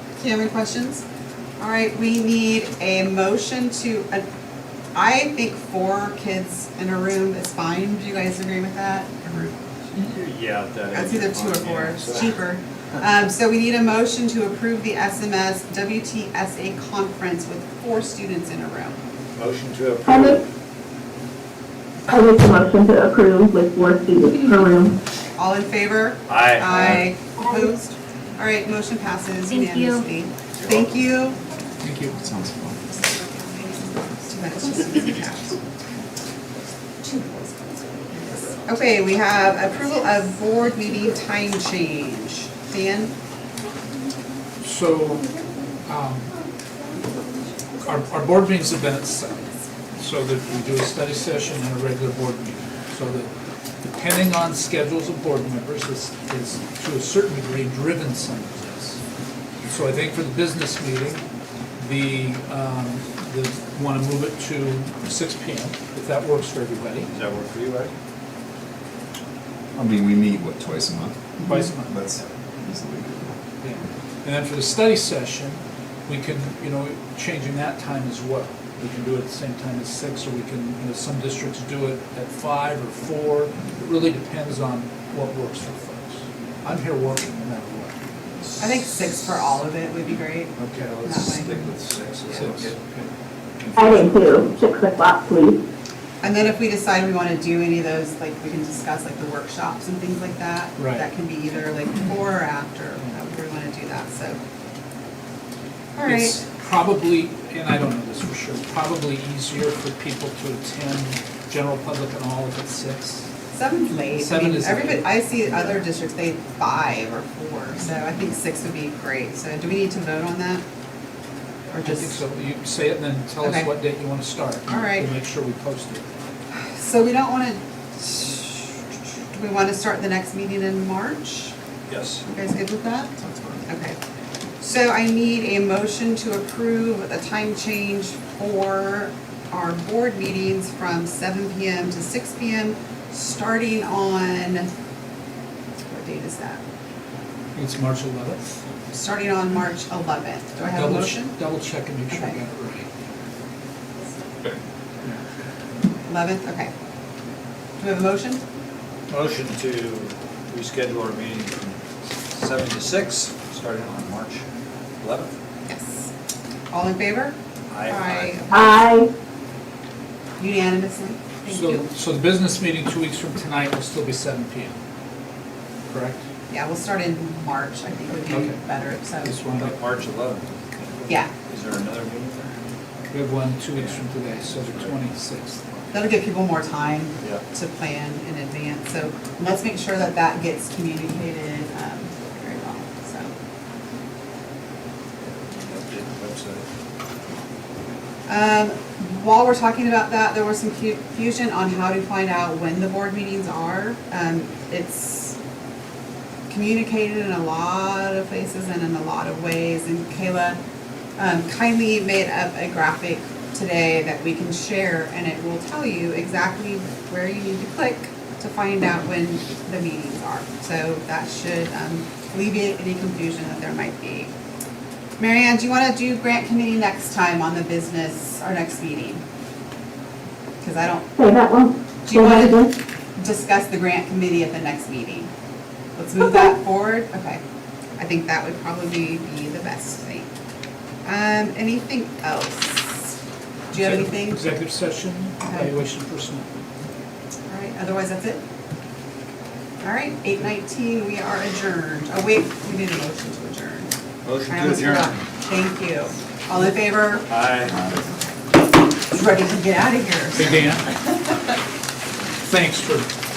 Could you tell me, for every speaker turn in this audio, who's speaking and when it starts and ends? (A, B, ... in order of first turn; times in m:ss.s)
0:00.2-0:01.0 A
0:01.6-0:04.2 A
0:04.9-0:09.1 A
0:09.2-0:09.6 B
0:10.0-0:12.4 C
0:10.9-0:19.0 A
0:19.4-0:20.5 C
0:20.1-0:20.4 D
0:22.1-0:25.0 D
0:25.4-0:31.4 A
0:26.3-0:27.0 C
0:31.8-0:32.2 E
0:32.2-0:32.8 B
0:34.3-0:35.6 A
0:38.6-0:43.1 A
0:44.6-0:45.3 E
0:45.9-0:46.3 E
0:47.8-0:59.0 E
0:59.6-1:01.2 E
1:01.8-1:07.1 E
1:07.1-1:07.9 C
1:09.8-1:11.2 B
1:11.4-1:12.1 E
1:11.9-1:13.4 B
1:13.6-1:28.0 E
1:28.6-1:31.5 A
1:30.6-1:31.5 E
1:30.8-1:32.8 C
1:32.3-1:33.1 E
1:33.6-1:34.6 E
1:33.8-1:35.6 D
1:36.2-1:44.4 A
1:40.8-1:41.1 E
1:46.0-1:46.4 A
1:46.1-1:53.3 E
1:53.5-2:00.6 A
1:53.9-1:55.1 E
2:01.7-2:02.2 A
2:01.8-2:06.0 E
2:03.4-2:03.7 A
2:04.7-2:05.1 A
2:06.5-2:08.8 A
2:09.3-2:11.6 A
2:11.9-2:12.2 C
2:12.2-2:13.1 A
2:13.2-2:13.7 B
2:13.7-2:14.0 A
2:14.6-2:24.7 A
2:25.9-2:26.6 A
2:27.6-2:28.4 E
2:28.9-2:31.4 A
2:30.7-2:32.9 E
2:32.1-2:32.4 A
2:36.1-2:36.7 A
2:37.8-2:38.4 A
2:39.1-2:41.8 C
2:42.3-2:44.4 C
2:45.0-2:45.3 C
2:45.7-2:46.1 A
2:46.7-2:48.9 A
2:47.7-2:48.4 C
2:48.5-2:49.1 D
2:50.4-2:51.9 A
2:51.5-2:54.8 E
2:55.9-2:56.2 E
2:56.5-2:59.3 A
2:58.3-2:58.6 E
2:59.2-2:59.8 E
2:59.5-3:02.6 C
3:03.1-3:06.1 E
3:03.7-3:05.0 C
3:05.9-3:13.3 A
3:15.2-3:16.7 C
3:18.3-3:25.4 A
3:26.5-3:30.6 A
3:31.2-3:44.3 A
3:45.2-3:49.2 A
3:50.6-3:51.1 A
3:51.2-3:52.8 D
3:52.0-3:52.6 A
3:53.2-3:55.3 A
3:56.0-3:57.4 A
3:58.0-4:00.3 A
4:01.0-4:03.2 A
4:03.7-4:04.5 A
4:03.7-4:06.5 E
4:05.4-4:05.7 A
4:07.5-4:08.4 A
4:09.8-4:13.9 A
4:14.2-4:15.2 C
4:14.5-4:17.3 A
4:17.3-4:17.8 C
4:17.7-4:18.0 B
4:18.1-4:20.6 A
4:20.4-4:20.9 E
4:22.5-4:23.1 E